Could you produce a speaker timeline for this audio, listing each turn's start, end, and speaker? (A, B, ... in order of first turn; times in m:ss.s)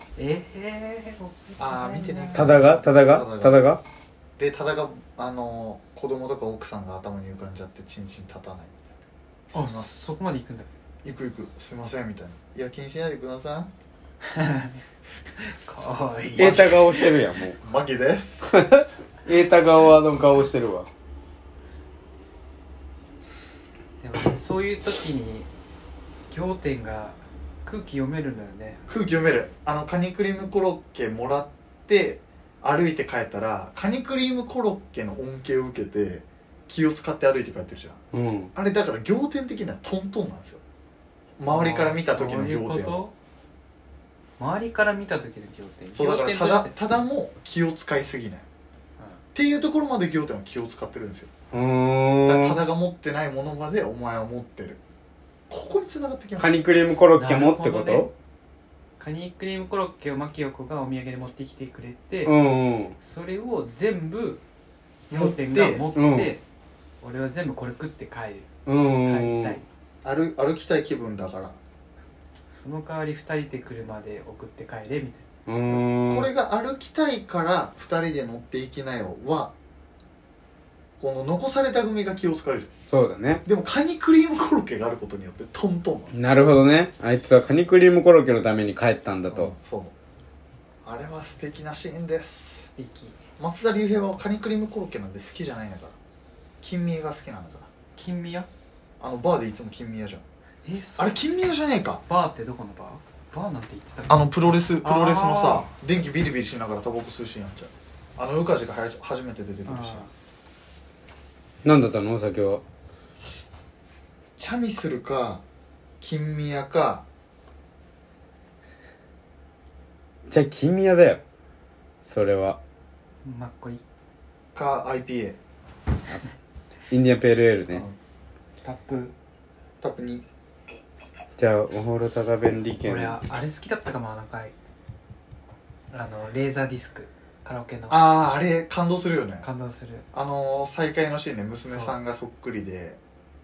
0:00.2-0:02.7 A
0:01.6-0:03.7 B
0:02.4-0:03.8 C
0:04.4-0:09.0 B
0:09.5-0:10.2 B
0:09.5-0:10.7 A
0:11.0-0:13.7 B
0:14.3-0:14.8 A
0:15.4-0:16.7 A
0:16.2-0:18.4 B
0:16.4-0:17.6 C
0:18.5-0:20.9 C
0:24.0-0:25.5 A
0:26.3-0:28.8 A
0:28.9-0:38.0 B
0:38.1-0:38.5 C
0:38.6-0:40.6 B
0:41.4-0:43.0 B
0:41.5-0:43.1 A
0:44.4-0:46.8 A
0:45.9-0:48.5 B
0:49.4-0:51.3 B
0:51.5-0:52.6 C
0:52.3-0:54.8 B
0:55.5-0:56.6 B
0:56.4-0:58.1 C
0:57.2-0:58.1 A
0:59.0-1:02.4 A
1:02.2-1:03.0 C
1:03.0-1:04.4 A
1:05.1-1:05.9 B
1:05.1-1:06.4 A
1:06.0-1:06.4 C
1:07.0-1:08.5 A
1:08.7-1:09.6 C
1:09.0-1:09.7 A
1:10.0-1:11.6 B
1:12.5-1:15.3 A
1:15.5-1:16.3 C
1:15.7-1:19.5 B
1:21.0-1:22.7 B
1:22.9-1:23.4 C
1:23.4-1:26.1 B
1:26.1-1:29.5 C
1:29.3-1:29.9 B
1:30.8-1:32.7 B
1:32.8-1:33.2 A
1:33.4-1:36.0 B
1:36.6-1:37.7 B
1:38.0-1:38.5 A
1:39.0-1:40.2 B
1:40.6-1:41.2 A
1:41.0-1:42.0 B
1:42.0-1:45.7 A
1:44.1-1:50.0 B
1:49.7-1:50.1 A
1:51.6-1:52.6 C
1:54.4-1:55.4 B
1:56.0-1:57.0 B
2:00.3-2:01.2 C
2:02.0-2:02.6 C
2:03.2-2:03.8 A
2:04.5-2:05.4 B
2:06.9-2:07.8 C
2:08.6-2:09.2 A
2:09.8-2:10.2 B
2:11.4-2:13.2 C
2:12.8-2:14.5 A
2:15.9-2:18.1 A
2:17.9-2:19.5 B
2:19.4-2:20.1 A
2:20.1-2:23.0 B
2:21.7-2:22.0 A